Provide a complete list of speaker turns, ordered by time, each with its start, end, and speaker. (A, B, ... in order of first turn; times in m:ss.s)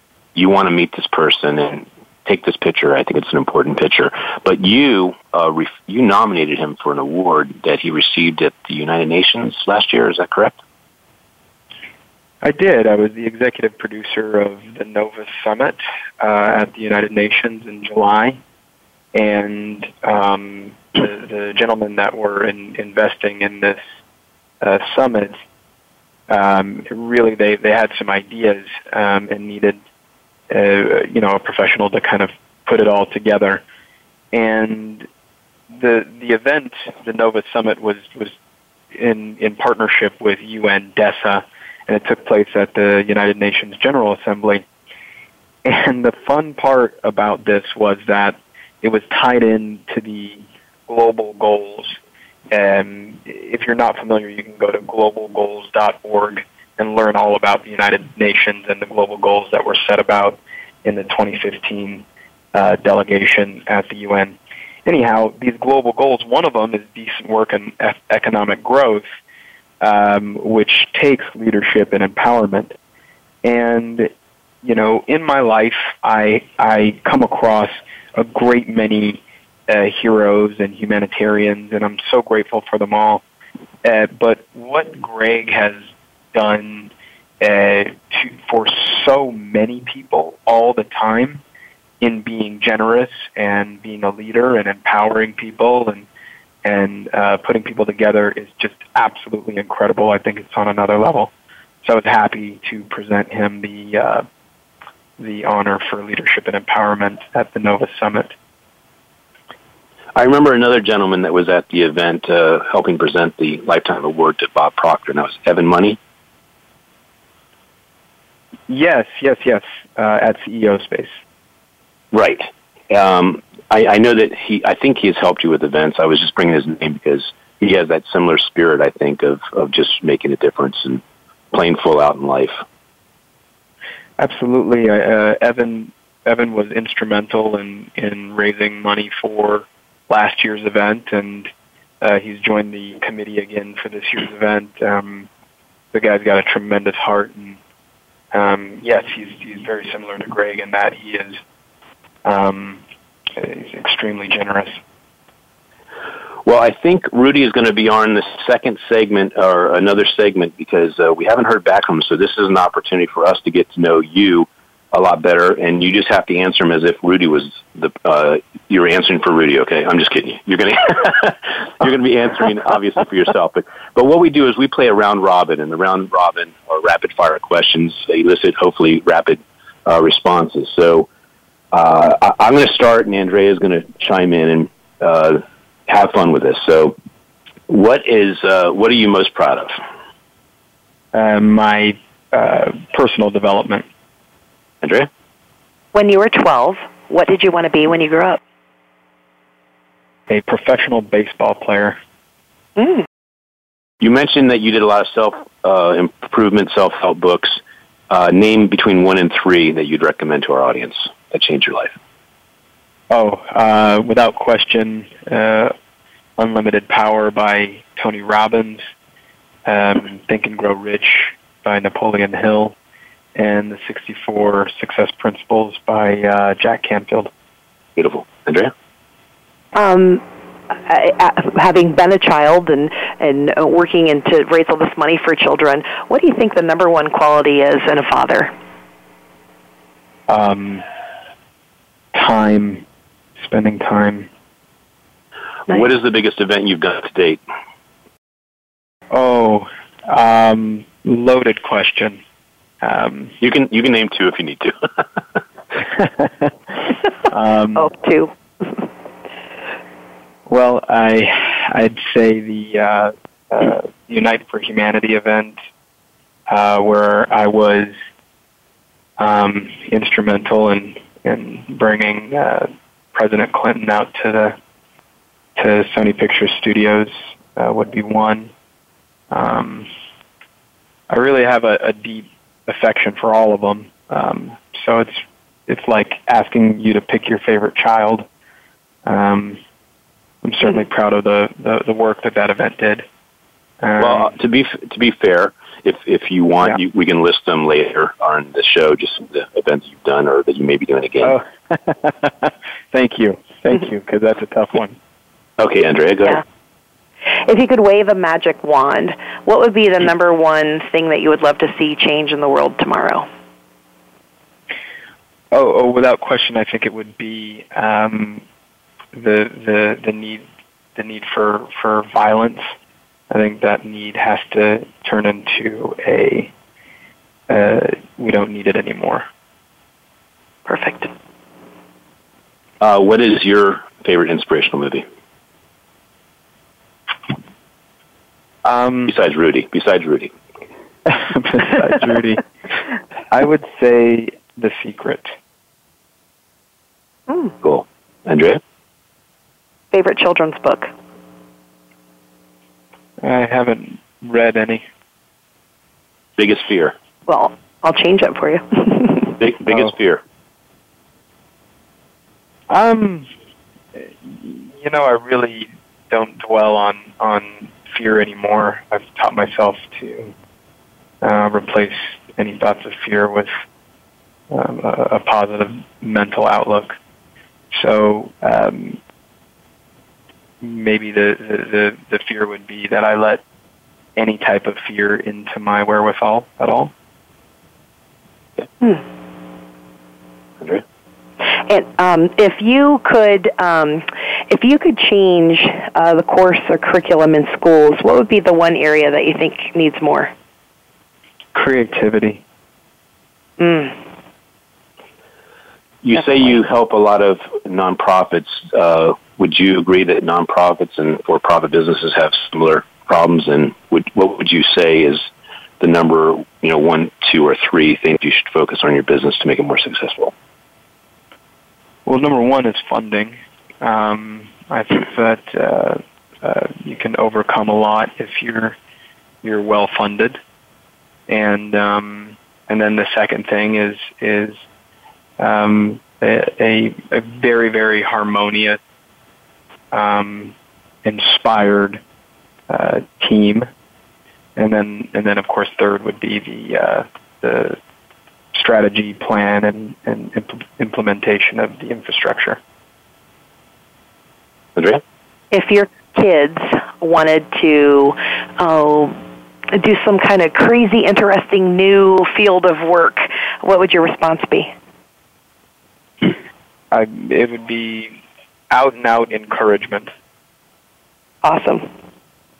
0:00.4-0:10.6 A
0:12.4-0:18.4 B
0:19.1-0:23.8 B
0:24.6-0:25.4 B
0:26.3-0:29.8 B
0:30.5-0:33.6 B
0:34.3-0:35.1 B
0:35.7-0:38.4 B
0:38.9-0:44.6 B
0:45.6-0:52.0 B
0:52.5-1:09.1 B
1:09.8-1:12.8 B
1:13.4-1:14.1 B
1:14.6-1:23.2 B
1:23.8-1:31.4 B
1:32.0-1:36.1 B
1:36.6-1:41.3 B
1:41.8-1:44.2 B
1:45.2-1:48.3 B
1:50.2-1:56.0 A
1:58.7-2:01.2 B
2:02.1-2:12.5 A
2:14.2-2:21.5 B
2:22.0-2:25.3 B
2:25.9-2:27.6 B
2:28.3-2:31.4 B
2:32.2-2:32.8 B
2:33.4-2:34.8 B
2:36.5-3:01.1 A
3:01.7-3:07.0 A
3:07.7-3:09.8 A
3:11.1-3:13.9 B
3:14.8-3:15.1 A
3:15.9-3:18.4 C
3:20.3-3:22.0 B
3:22.8-3:23.0 C
3:24.0-3:32.0 A
3:33.1-3:35.7 B
3:36.4-3:38.8 B
3:39.7-3:42.8 B
3:43.4-3:47.3 B
3:48.0-3:48.7 A
3:49.8-3:58.5 C
4:00.3-4:00.8 B
4:02.1-4:02.8 B
4:03.4-4:04.3 B
4:05.7-4:07.4 A
4:09.1-4:12.2 B
4:12.8-4:13.4 B
4:13.4-4:14.8 A
4:16.0-4:16.5 B
4:17.3-4:17.9 B
4:17.8-4:18.3 C
4:20.5-4:25.6 B
4:26.5-4:28.0 B
4:29.2-4:34.6 B
4:35.6-4:38.5 B
4:39.3-4:39.9 B
4:41.1-4:48.3 B
4:49.0-4:49.6 B
4:50.4-4:53.0 B
4:53.8-4:54.3 B
4:54.0-5:01.4 A
5:01.2-5:05.0 B
5:05.6-5:06.4 A
5:07.4-5:13.3 C
5:15.5-5:18.4 B
5:19.2-5:20.4 B
5:21.0-5:22.7 B
5:23.3-5:26.5 B
5:27.5-5:29.2 B
5:30.7-5:31.1 C
5:32.8-5:35.0 A
5:38.6-5:39.2 B
5:39.1-5:40.3 A
5:41.1-5:42.4 B
5:43.3-5:45.4 B
5:47.6-5:48.6 A
5:49.9-5:50.9 C
5:53.2-5:54.8 B
5:56.4-5:57.0 A
5:57.3-5:59.4 C
5:59.4-6:00.2 A
6:02.7-6:03.3 B
6:04.0-6:10.3 B
6:11.2-6:13.5 B
6:14.5-6:17.0 B
6:17.7-6:19.0 B
6:20.6-6:23.4 B
6:24.2-6:26.9 B
6:31.7-6:40.3 C
6:41.5-6:42.4 B
6:43.6-6:44.0 C
6:46.0-6:55.3 A
6:55.8-7:00.3 A
7:02.1-7:08.8 B
7:09.4-7:10.4 B
7:11.3-7:14.6 B
7:15.4-7:18.8 B
7:19.9-7:22.0 B
7:22.7-7:23.7 B
7:24.6-7:27.8 B
7:28.5-7:32.6 B
7:34.8-7:35.0 A
7:35.5-7:39.2 C
7:39.7-7:44.7 C
7:46.9-7:48.2 B
7:48.7-7:50.1 B
7:51.4-7:51.9 C